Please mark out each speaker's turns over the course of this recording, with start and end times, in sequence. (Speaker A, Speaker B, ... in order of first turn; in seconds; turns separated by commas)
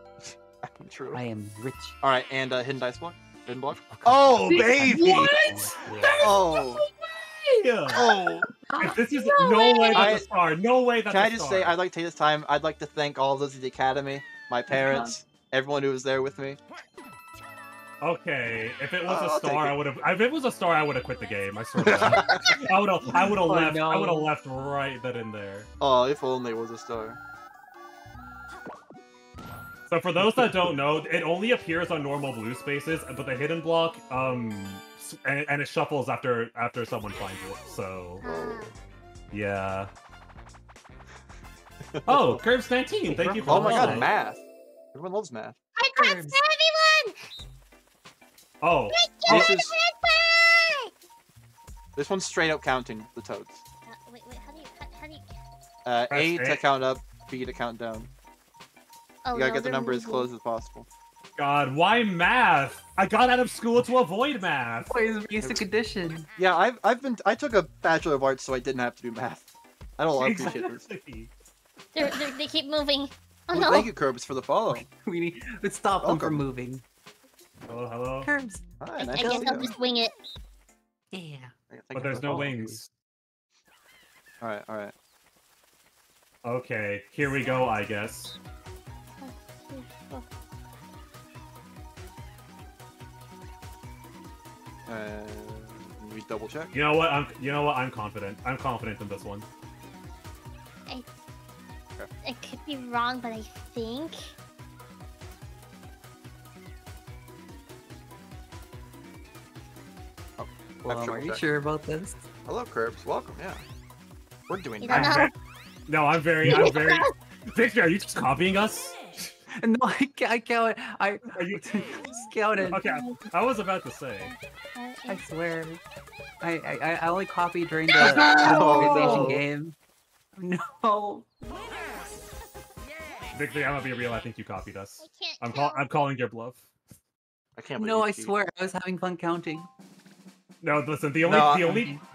Speaker A: 0.6-1.2, Speaker B: 1.1-2.0, Speaker A: 2.0-5.4, Speaker B: 3.9-6.4, Speaker C: 4.8-7.7, Speaker D: 5.9-6.3, Speaker A: 6.2-6.8, Speaker D: 7.6-8.0, Speaker A: 7.9-8.5, Speaker B: 8.5-9.0, Speaker D: 8.8-11.8, Speaker C: 9.2-10.2, Speaker A: 9.9-10.3, Speaker A: 11.1-16.6, Speaker B: 14.7-15.1, Speaker D: 18.0-25.7, Speaker A: 19.0-19.8, Speaker A: 21.8-22.6, Speaker B: 23.1-24.3, Speaker A: 25.8-27.2, Speaker D: 29.9-38.2, Speaker A: 38.2-38.7, Speaker C: 38.2-38.7, Speaker D: 39.3-39.9, Speaker A: 41.9-42.4, Speaker D: 42.1-44.1, Speaker A: 43.1-45.5, Speaker B: 43.2-44.1, Speaker C: 45.8-47.2, Speaker B: 45.9-46.4, Speaker D: 48.6-49.5, Speaker C: 48.9-50.9, Speaker A: 49.2-49.7, Speaker A: 52.0-53.6, Speaker C: 53.9-55.4, Speaker A: 55.8-58.1, Speaker D: 56.1-56.6, Speaker C: 59.2-60.3, Speaker A: 59.3-60.9, Speaker D: 61.4-64.9, Speaker B: 64.9-66.3, Speaker A: 66.4-70.8, Speaker D: 70.2-71.3, Speaker C: 71.9-73.9, Speaker B: 72.0-72.3, Speaker A: 73.5-74.8, Speaker B: 74.7-76.8, Speaker A: 76.0-76.4, Speaker D: 77.7-78.3, Speaker B: 78.2-79.8, Speaker A: 78.8-79.7, Speaker C: 79.0-80.1, Speaker B: 81.1-81.5, Speaker A: 81.7-82.6, Speaker D: 81.9-82.9, Speaker B: 82.2-82.8, Speaker A: 84.4-84.9, Speaker D: 86.4-88.3, Speaker C: 89.2-90.2, Speaker A: 94.9-96.7, Speaker D: 96.7-99.5, Speaker C: 102.2-104.3, Speaker A: 110.4-111.4, Speaker B: 110.8-112.2, Speaker A: 112.5-113.6, Speaker A: 114.5-115.3, Speaker C: 114.8-115.3, Speaker D: 114.9-115.3, Speaker D: 115.9-119.3, Speaker C: 116.4-117.1, Speaker B: 119.5-122.8, Speaker D: 121.3-122.0, Speaker D: 122.7-124.3, Speaker C: 122.8-123.1, Speaker C: 124.2-125.2, Speaker B: 125.1-125.8, Speaker B: 126.4-129.8, Speaker C: 127.9-129.4, Speaker A: 128.0-129.4, Speaker B: 130.3-131.2, Speaker D: 133.3-136.7, Speaker C: 135.0-135.8, Speaker A: 137.6-138.3, Speaker B: 137.8-139.7, Speaker D: 140.6-141.9, Speaker A: 141.2-141.7, Speaker B: 141.5-142.0